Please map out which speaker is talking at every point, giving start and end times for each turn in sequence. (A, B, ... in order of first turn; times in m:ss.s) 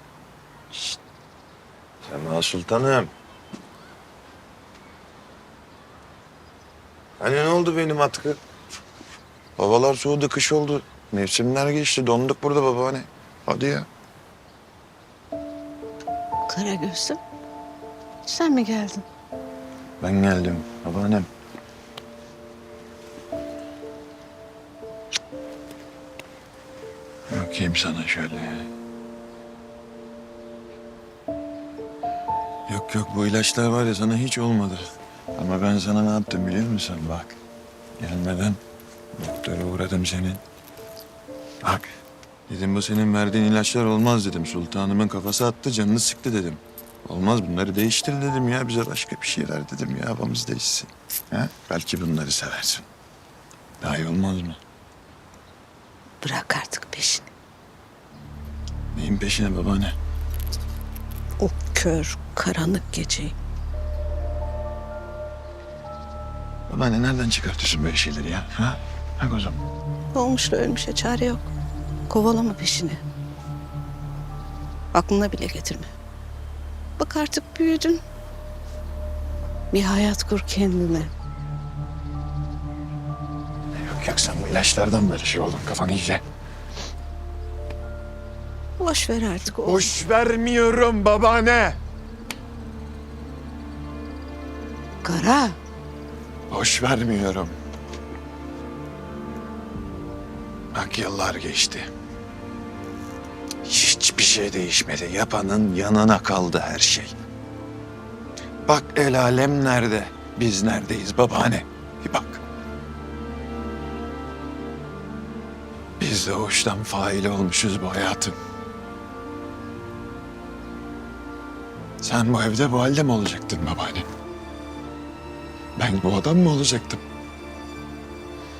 0:02.0-0:03.1 A
0:07.2-0:08.4 A
0:09.6-0:13.9 A
0:16.4-0:17.2 B
0:18.2-0:19.0 B
0:20.0-0:21.3 A
0:27.3-0:28.7 A
0:32.7-0:37.4 A
0:38.0-0:38.6 A
0:39.1-0:40.4 A
0:41.6-0:41.9 A
0:42.5-0:52.8 A
0:53.8-0:54.6 A
0:56.2-0:57.3 B
0:58.9-0:59.9 A
1:01.4-1:03.3 B
1:06.7-1:09.6 A
1:10.1-1:11.5 B
1:12.1-1:13.0 B
1:14.9-1:15.9 B
1:17.0-1:18.0 B
1:19.7-1:21.1 B
1:23.7-1:26.2 A
1:28.8-1:29.9 B
1:29.5-1:31.8 A
1:35.0-1:35.6 B
1:36.5-1:37.6 A
1:40.7-1:41.9 A
1:43.6-1:47.1 A
1:48.7-1:52.4 A
1:56.0-1:58.4 A
2:02.0-2:04.1 A
2:05.8-2:07.0 A